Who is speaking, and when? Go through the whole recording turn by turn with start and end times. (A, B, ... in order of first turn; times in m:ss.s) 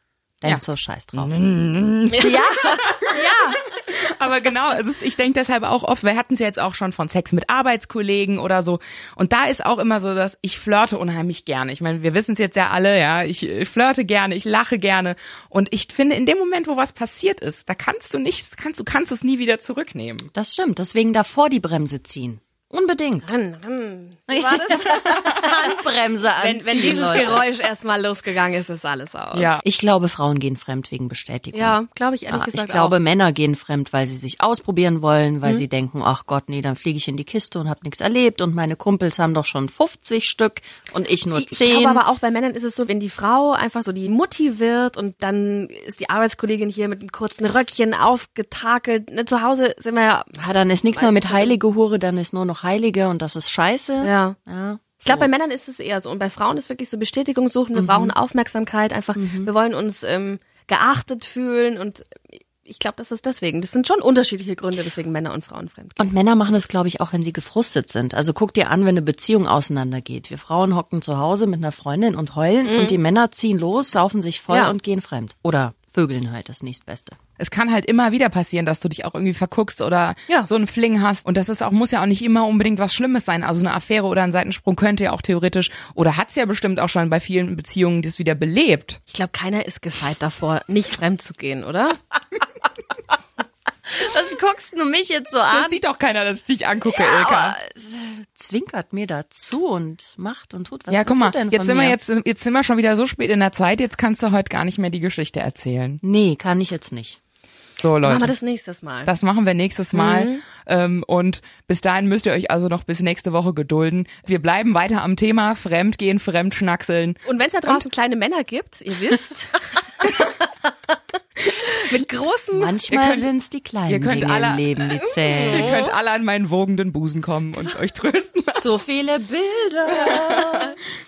0:00.4-0:01.3 A
0:01.2-0:02.3 B
0:02.1-0:02.8 C
0:02.2-0:03.6 A
0:02.9-0:20.3 B
0:20.3-0:23.3 A
0:23.2-0:25.8 C
0:24.3-0:27.4 A
0:26.4-0:29.5 C
0:29.3-0:29.6 B
0:29.6-0:31.8 A
0:31.5-0:33.0 C
0:32.3-0:42.0 A
0:41.4-0:50.4 C
0:50.4-0:55.3 A
0:50.9-0:51.6 C
0:54.0-0:54.4 C
0:55.0-1:06.1 C
0:57.8-0:58.1 A
0:59.1-0:59.5 A
1:06.0-1:17.2 A
1:12.6-1:13.0 C
1:14.5-1:14.8 C
1:17.4-1:29.0 B
1:29.1-1:32.0 C
1:33.9-1:35.8 A
1:35.5-1:37.6 B
1:36.9-1:42.0 A
1:40.9-1:46.0 B
1:46.0-1:47.2 A
1:47.8-1:48.3 B
1:48.0-1:49.1 C
1:49.1-1:57.8 B
1:49.9-1:50.4 C
1:57.2-2:00.3 C
2:01.4-2:02.8 C
2:02.5-2:05.8 A
2:02.9-2:03.3 B
2:03.9-2:08.8 B
2:05.4-2:05.9 C
2:08.6-2:10.8 A